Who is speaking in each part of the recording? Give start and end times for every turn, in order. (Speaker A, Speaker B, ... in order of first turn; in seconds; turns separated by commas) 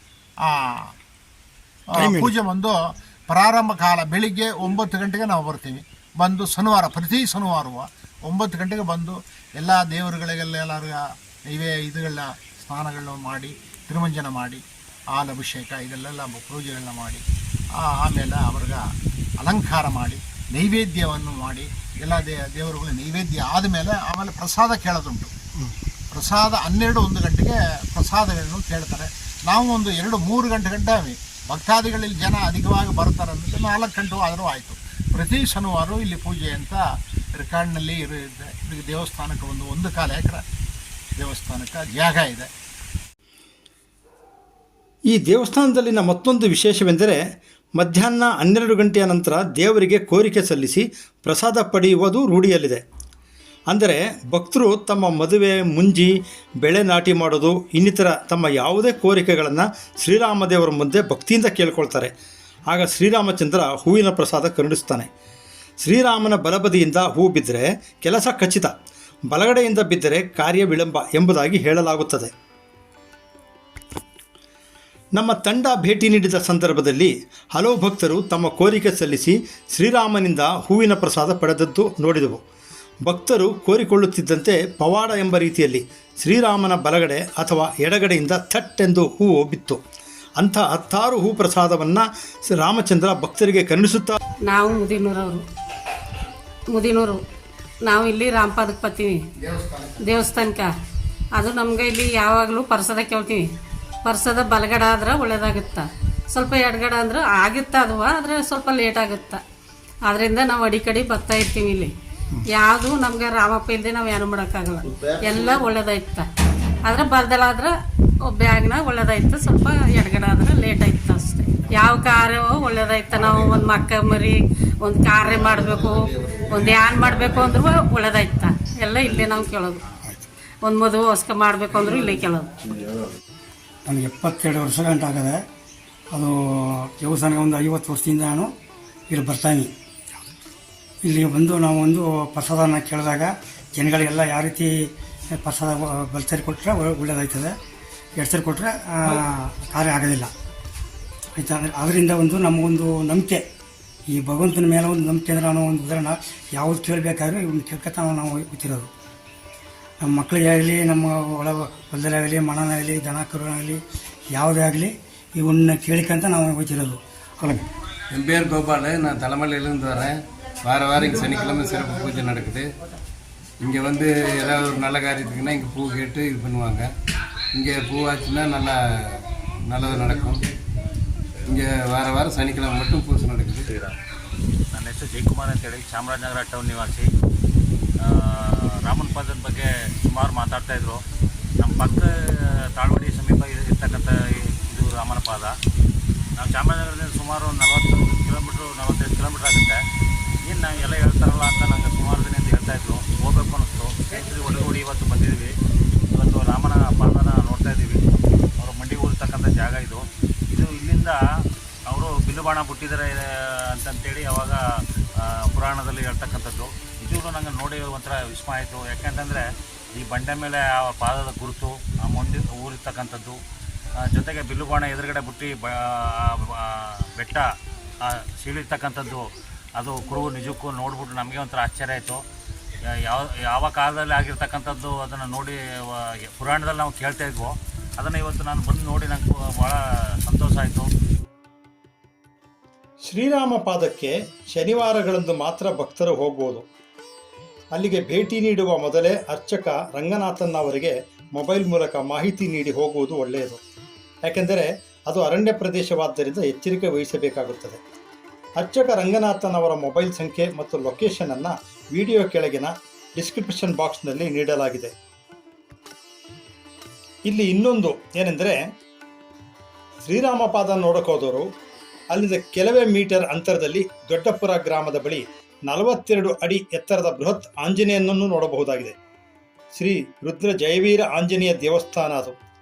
Speaker A: 0.4-0.9, Speaker A: 1.9-2.8, Speaker B: 2.0-2.3, Speaker A: 3.3-14.6, Speaker A: 15.1-17.2, Speaker A: 17.7-18.9, Speaker A: 19.4-25.3, Speaker A: 26.1-36.8, Speaker A: 37.3-40.4, Speaker A: 41.2-42.5, Speaker C: 45.1-47.2, Speaker C: 47.8-52.8, Speaker C: 53.7-56.1, Speaker C: 56.6-62.1, Speaker C: 62.7-65.1, Speaker C: 65.8-68.7, Speaker C: 69.3-72.3, Speaker C: 75.1-82.4, Speaker C: 83.0-89.8, Speaker C: 90.4-94.2, Speaker D: 94.5-95.4, Speaker D: 96.7-97.2, Speaker D: 97.8-99.2, Speaker A: 99.4-100.2, Speaker D: 100.0-100.7, Speaker D: 101.4-103.4, Speaker D: 104.0-109.4, Speaker D: 110.1-111.9, Speaker D: 112.5-116.2, Speaker D: 116.8-117.7, Speaker D: 118.3-129.8, Speaker D: 130.6-132.5, Speaker B: 133.8-135.4, Speaker B: 136.1-138.5, Speaker B: 139.1-139.7, Speaker B: 141.0-147.5, Speaker B: 148.2-150.3, Speaker B: 151.3-153.4, Speaker B: 154.1-158.9, Speaker B: 160.0-167.6, Speaker E: 168.1-172.7, Speaker E: 173.6-176.9, Speaker E: 177.5-180.4, Speaker E: 181.5-183.9, Speaker F: 184.7-187.1, Speaker F: 188.0-191.0, Speaker F: 191.6-192.1, Speaker F: 192.8-194.1, Speaker F: 194.7-195.5, Speaker F: 196.4-199.8, Speaker F: 200.4-205.5, Speaker F: 206.1-208.0, Speaker F: 208.6-211.2, Speaker F: 211.9-214.6, Speaker F: 215.2-219.4, Speaker F: 219.9-223.4, Speaker F: 224.1-227.5, Speaker F: 228.0-232.2, Speaker F: 232.9-240.9, Speaker C: 243.0-246.7, Speaker C: 247.7-253.6, Speaker C: 254.2-257.8, Speaker C: 258.6-264.9, Speaker C: 267.3-268.5, Speaker C: 270.0-271.4, Speaker C: 272.1-278.9, Speaker C: 279.7-282.4